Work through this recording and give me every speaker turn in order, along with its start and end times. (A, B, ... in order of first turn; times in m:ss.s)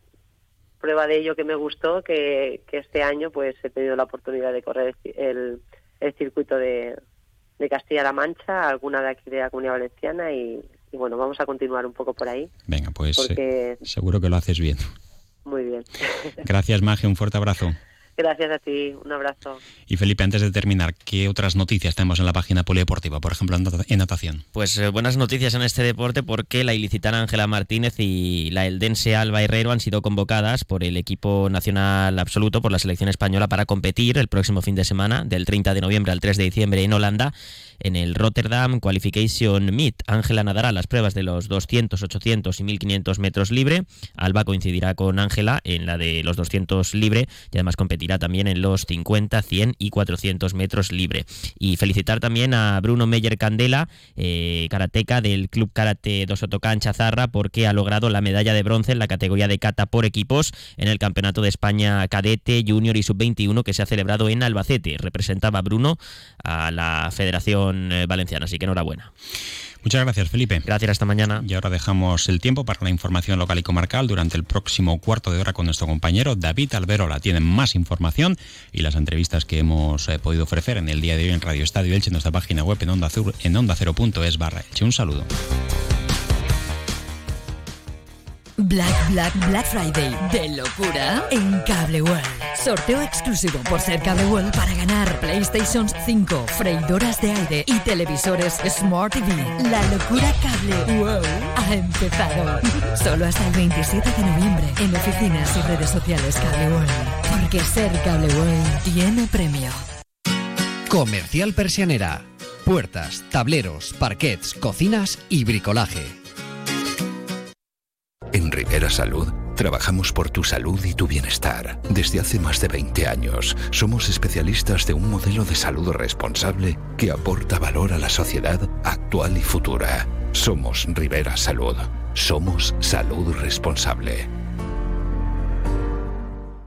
0:00.8-0:07.0 A
0:07.6-0:12.5 A
0:12.7-0:14.8 B
0:13.2-0:13.8 A
0:15.4-0:16.3 A
0:16.4-0:17.8 B
0:18.2-0:19.6 A
0:19.9-0:24.4 B
0:24.6-1:09.1 C
1:09.8-1:10.7 B
1:10.7-1:11.4 C
1:11.4-1:25.3 B
1:28.6-1:49.8 D
1:50.9-1:56.1 E
1:58.3-2:14.3 F